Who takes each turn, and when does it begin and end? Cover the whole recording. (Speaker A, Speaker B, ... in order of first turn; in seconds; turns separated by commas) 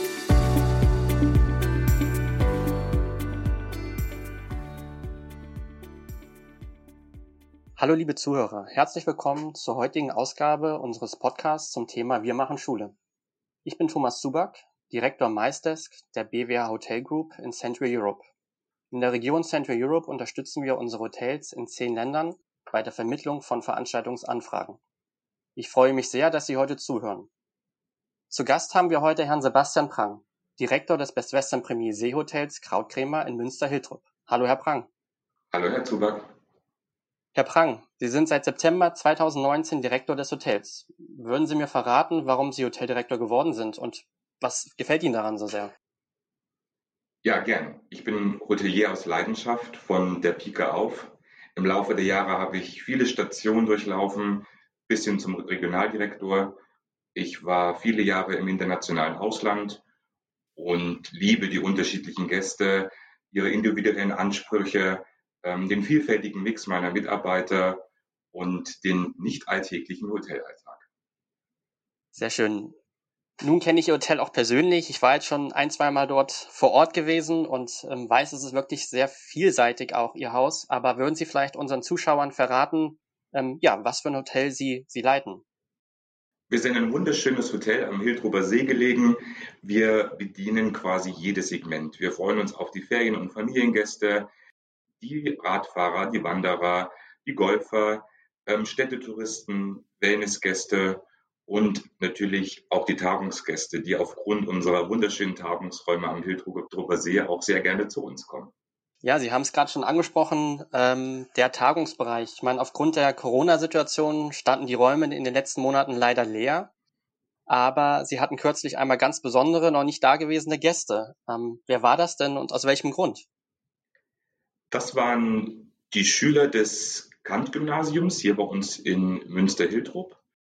Speaker A: 7.8-12.9, Speaker A: 13.6-18.2, Speaker A: 18.9-24.8, Speaker A: 25.6-27.3, Speaker A: 28.3-34.9, Speaker B: 35.5-36.3, Speaker A: 37.3-45.7, Speaker B: 47.2-56.6, Speaker B: 57.1-59.8, Speaker B: 60.5-70.8, Speaker A: 72.1-72.7, Speaker A: 73.4-85.4, Speaker B: 86.5-94.3, Speaker B: 95.0-108.5, Speaker A: 109.0-116.7, Speaker A: 117.5-123.2, Speaker B: 124.7-130.2